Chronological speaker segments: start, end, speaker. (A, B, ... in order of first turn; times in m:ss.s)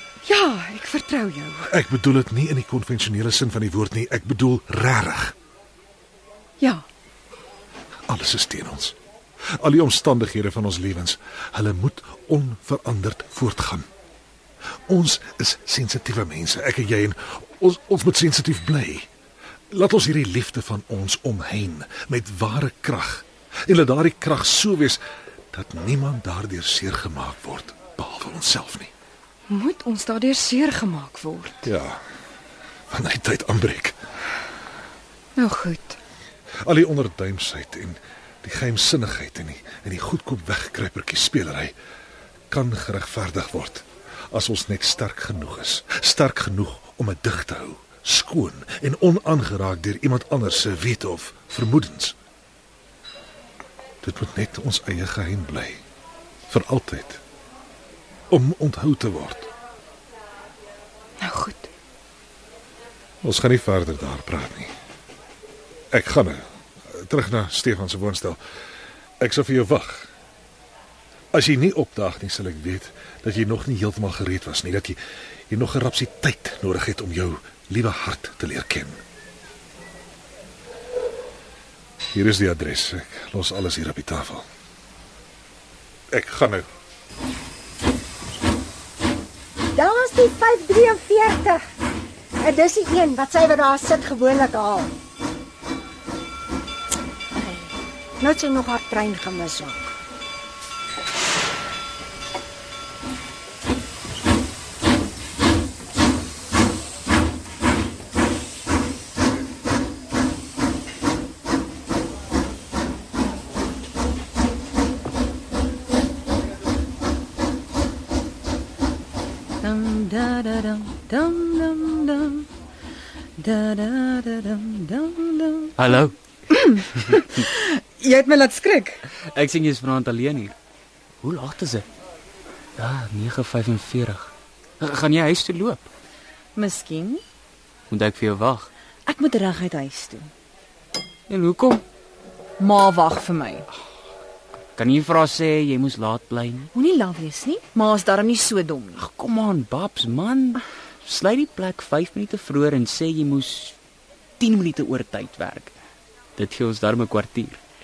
0:00.2-0:01.7 A
0:01.7-0:05.3 B
0:08.1-0:09.0 B
0:09.6-0:13.9 B
0:14.9-0:19.1 B
0:19.7-0:25.0 B
0:25.5-0:28.9 B
0:29.5-0:31.6 A
0:31.6-0:32.0 B
0:32.9-0:34.0 B
0:35.4-0:36.0 A
0:36.6-0:41.7 B
0:42.5-0:52.1 B
0:54.0-0:55.8 B
0:56.5-0:57.2 B
0:58.3-0:59.5 B
1:01.2-1:01.7 A
1:03.2-1:04.7 B
1:05.9-1:08.4 B
1:09.2-1:10.1 B
1:11.3-1:15.0 B
1:15.5-1:19.0 B
1:22.1-1:24.4 B
1:26.1-1:26.7 B
1:29.8-1:31.6 C
1:32.4-1:34.9 C
1:38.2-1:39.9 C
1:59.6-2:02.5 D
2:03.4-2:06.0 D
2:05.8-2:06.2 E
2:07.1-2:09.0 A
2:09.3-2:10.6 E
2:11.2-2:11.8 E
2:12.8-2:15.9 E
2:16.6-2:17.2 D
2:17.9-2:18.7 E
2:19.1-2:20.3 D
2:21.3-2:21.8 E
2:22.6-2:23.7 D
2:24.8-2:26.7 E
2:26.7-2:29.0 D
2:29.0-2:33.8 E
2:34.4-2:35.7 E
2:36.4-2:37.6 E